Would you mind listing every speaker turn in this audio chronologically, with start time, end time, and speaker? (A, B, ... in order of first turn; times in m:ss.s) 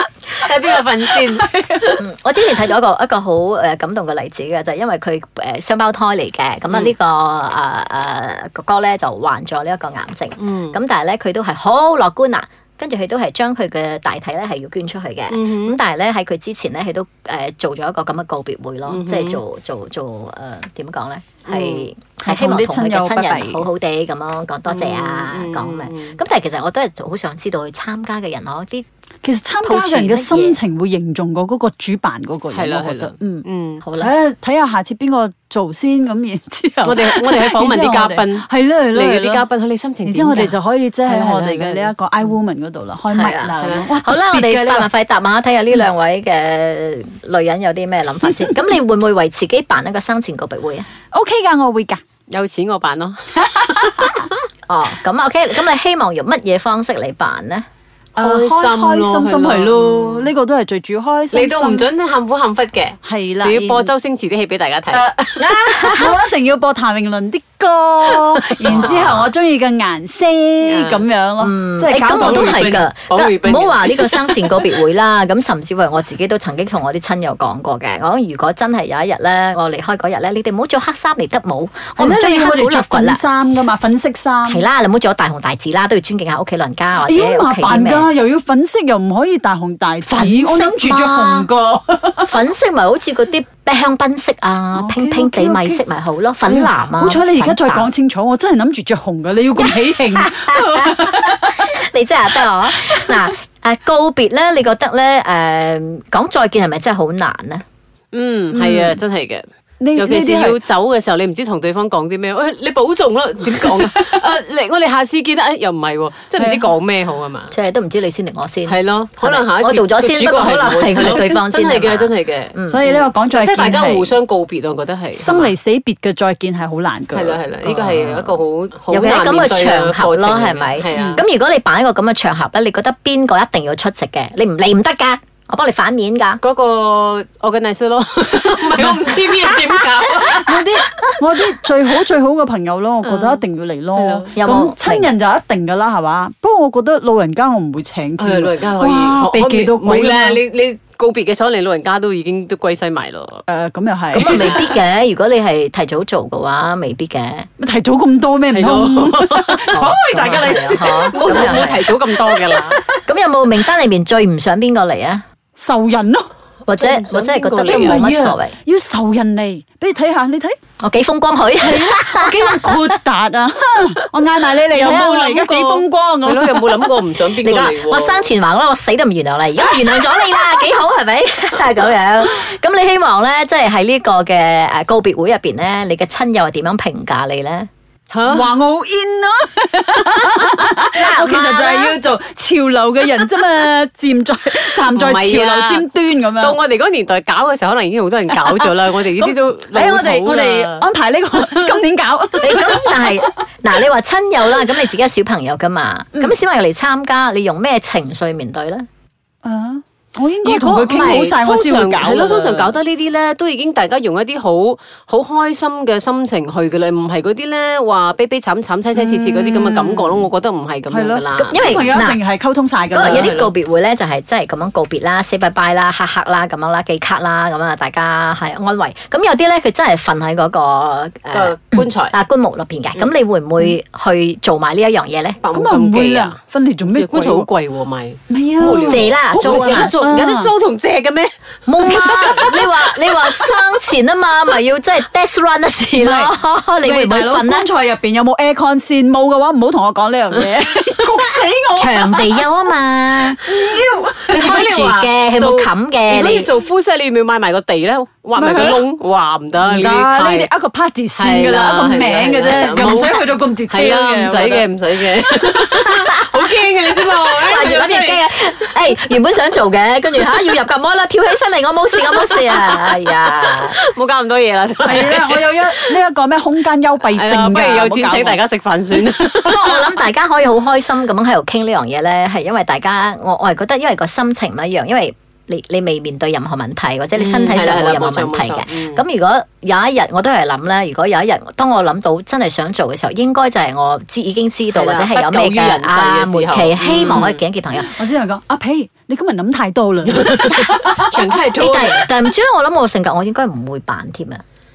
0:00.3-0:01.9 A
0:02.0-0:28.8 B
0:10.4-0:10.8 A
0:15.3-0:15.8 A
0:18.9-0:19.4 A
0:21.5-0:21.9 A
0:22.2-0:23.7 C
0:24.7-0:26.2 A
0:29.2-0:33.4 C
0:29.6-0:30.6 B
0:32.5-0:33.8 A
0:33.8-0:34.1 B
0:34.0-0:39.4 C
0:36.8-0:40.5 A
0:40.0-0:44.9 C
0:41.0-0:42.3 A
0:43.1-0:50.9 B
0:51.1-0:52.0 C
0:52.3-0:54.2 A
0:54.7-0:57.6 B
0:58.2-1:01.8 C
0:58.2-1:00.3 A
1:01.3-1:05.1 A
1:03.0-1:03.9 C
1:04.9-1:12.7 C
1:05.4-1:06.2 B
1:08.6-1:09.2 A
1:08.7-1:09.2 B
1:10.6-1:11.0 A
1:11.4-1:23.2 B
1:12.2-1:14.6 A
1:22.0-1:24.6 C
1:24.4-1:28.1 B
1:27.0-1:32.3 C
1:30.1-1:31.5 B
1:32.2-1:37.9 B
1:34.7-1:35.8 C
1:36.4-1:41.6 C
1:39.6-1:47.6 B
1:48.1-1:49.4 A
1:48.5-1:49.0 C
1:49.8-1:50.6 C
1:50.0-1:57.5 A
1:56.4-1:56.7 C
1:57.5-2:02.8 B
1:58.7-2:05.5 A
2:02.7-2:04.1 C
2:05.1-2:07.4 C
2:07.1-2:11.2 A
2:07.6-2:08.4 B
2:08.9-2:16.4 B
2:10.9-2:11.2 C
2:16.4-2:20.6 A
2:20.3-2:30.4 C
2:23.0-2:23.4 A
2:23.9-2:24.3 A
2:24.4-2:25.1 B
2:28.2-2:33.4 A
2:33.5-2:34.6 C
2:34.1-2:37.5 B
2:34.2-2:34.7 A
2:37.6-2:41.5 C
2:38.5-2:39.8 A
2:39.7-2:41.8 B
2:40.8-2:42.8 A
2:42.9-2:45.2 B
2:45.6-2:46.3 C
2:46.7-2:48.5 B
2:46.7-2:48.1 A
2:47.6-2:50.6 C
2:50.8-2:52.9 B
2:51.6-2:56.7 C
2:54.7-2:58.3 A
2:57.4-3:07.7 B
3:08.1-3:08.5 A
3:08.3-3:16.6 C
3:10.9-3:12.0 B
3:14.9-3:15.8 A
3:16.4-3:20.8 A
3:18.4-3:23.3 C
3:22.4-3:28.8 B
3:29.4-3:32.7 C
3:30.4-3:41.9 A
3:38.9-3:40.2 C
3:40.9-3:43.4 C
3:41.5-3:42.2 B
3:42.9-3:55.4 B
3:43.0-3:43.5 A
3:51.3-3:52.1 A
3:55.4-4:01.3 A
3:55.5-3:57.5 C
3:58.3-4:00.5 C
3:58.8-3:59.9 B
4:01.6-4:07.7 B
4:02.0-4:02.3 C
4:06.0-4:12.5 C
4:11.7-4:13.4 B
4:13.4-4:14.5 C
4:14.3-4:16.5 B
4:14.3-4:20.5 A
4:18.4-4:18.8 C
4:19.6-4:24.6 C
4:21.2-4:28.2 A
4:27.4-4:33.8 B
4:32.2-4:32.9 A
4:33.8-4:35.9 A
4:34.8-4:38.4 C
4:37.1-4:39.9 A
4:39.4-4:57.9 B
4:47.2-4:49.0 A
4:54.7-4:57.4 A
4:57.8-5:01.2 C
5:00.0-5:02.0 A
5:01.5-5:04.4 B